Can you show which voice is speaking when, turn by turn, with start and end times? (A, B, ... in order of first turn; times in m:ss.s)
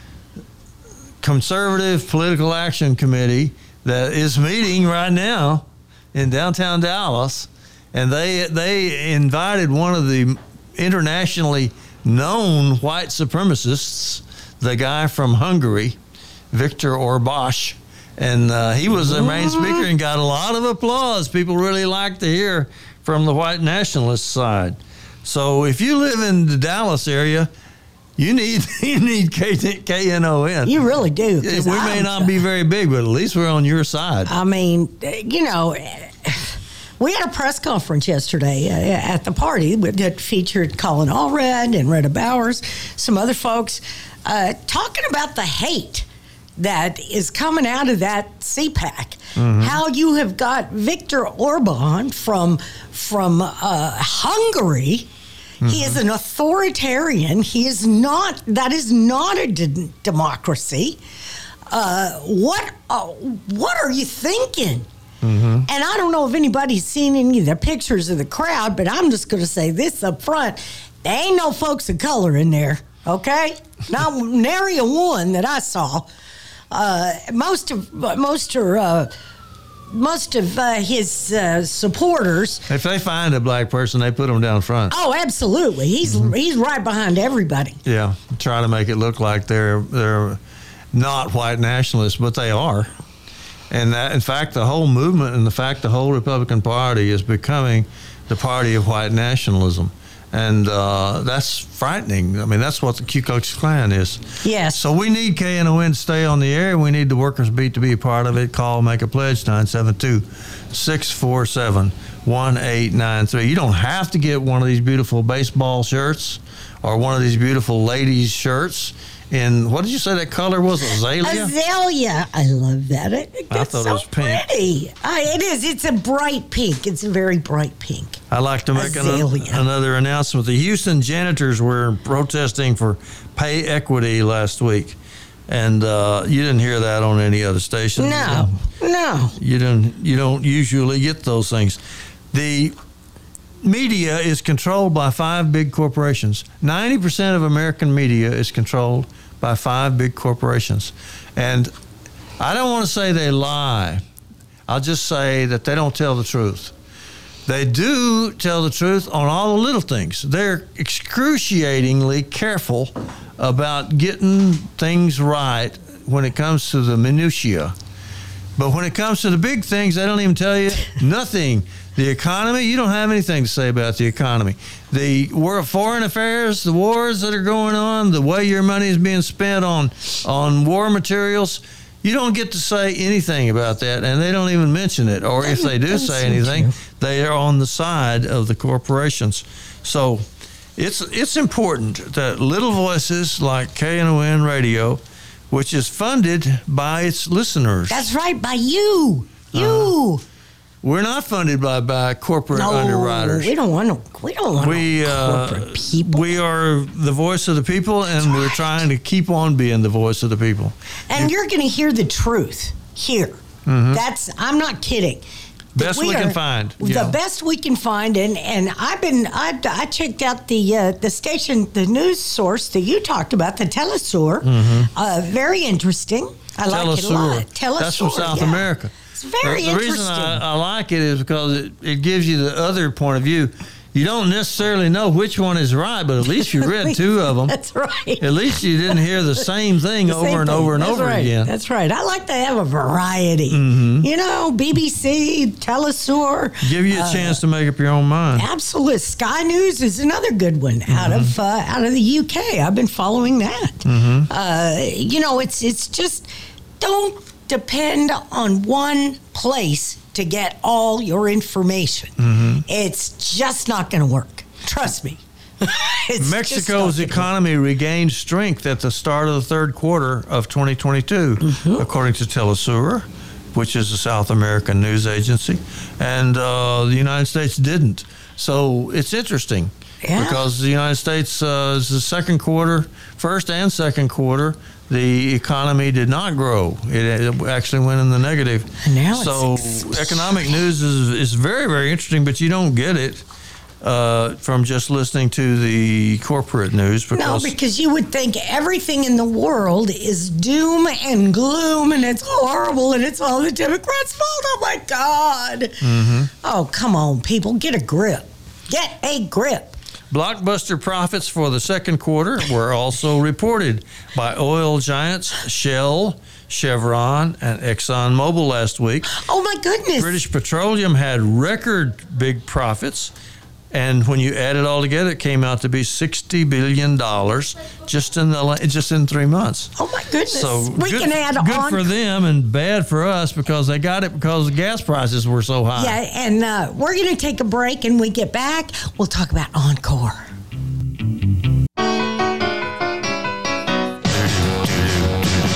0:01.2-0:16.0 A
0:16.5-0:27.5 A
0:19.1-0:19.9 B
0:28.2-0:30.8 A
0:30.7-0:32.3 B
0:31.4-0:34.3 A
0:34.3-0:46.1 B
0:46.6-0:55.1 B
0:49.4-0:49.8 A
0:55.6-0:56.0 A
0:55.6-1:01.0 B
1:01.7-1:04.9 B
1:05.2-1:05.7 A
1:05.7-1:16.1 B
1:16.7-1:19.1 B
1:19.9-1:22.7 B
1:22.7-1:24.9 A
1:24.9-1:27.8 B
1:26.1-1:26.3 A
1:27.8-1:30.4 A
1:30.9-1:32.9 A
1:33.7-2:01.5 A
1:44.4-1:44.8 B
2:01.2-2:08.2 B
2:03.5-2:04.4 A
2:08.3-2:15.0 A
2:08.8-2:09.6 B
2:15.5-2:18.6 A
2:18.0-2:19.4 B
2:19.4-2:21.8 A
2:22.3-2:22.7 A
2:23.6-2:31.7 A
2:32.4-2:34.0 A
2:34.7-2:36.7 A
2:37.5-2:47.7 A
2:48.6-3:10.2 A
3:05.4-3:06.8 B
3:10.8-3:15.0 A
3:15.5-3:18.1 A
3:17.9-3:20.2 B
3:19.5-3:19.9 A
3:20.8-3:23.5 A
3:22.5-3:26.4 B
3:24.6-3:31.3 A
3:28.3-3:28.6 B
3:31.1-3:33.4 B
3:33.7-3:34.0 A
3:33.9-3:35.2 B
3:35.8-3:37.2 A
3:35.8-3:50.4 B
3:44.4-3:44.9 A
3:46.7-3:57.6 A
3:56.4-3:59.0 B
3:58.2-4:01.5 A
4:00.1-4:07.4 B
4:03.5-4:04.1 A
4:06.6-4:08.5 A
4:08.4-4:16.3 B
4:10.9-4:11.3 A
4:13.9-4:14.3 A
4:16.8-4:27.3 B
4:22.2-4:22.6 A
4:26.2-4:53.2 A
4:31.4-4:31.9 B
4:40.0-4:40.4 B
4:48.8-4:50.3 B
4:53.8-4:57.5 A
4:57.1-5:05.8 B
5:05.8-5:06.3 A
5:06.4-5:09.8 B
5:10.1-5:19.1 A
5:19.1-5:20.2 B
5:20.0-5:23.1 A
5:23.7-5:29.7 A
5:29.8-5:31.9 B
5:30.3-5:36.0 A
5:35.8-5:40.3 B
5:44.2-5:45.1 A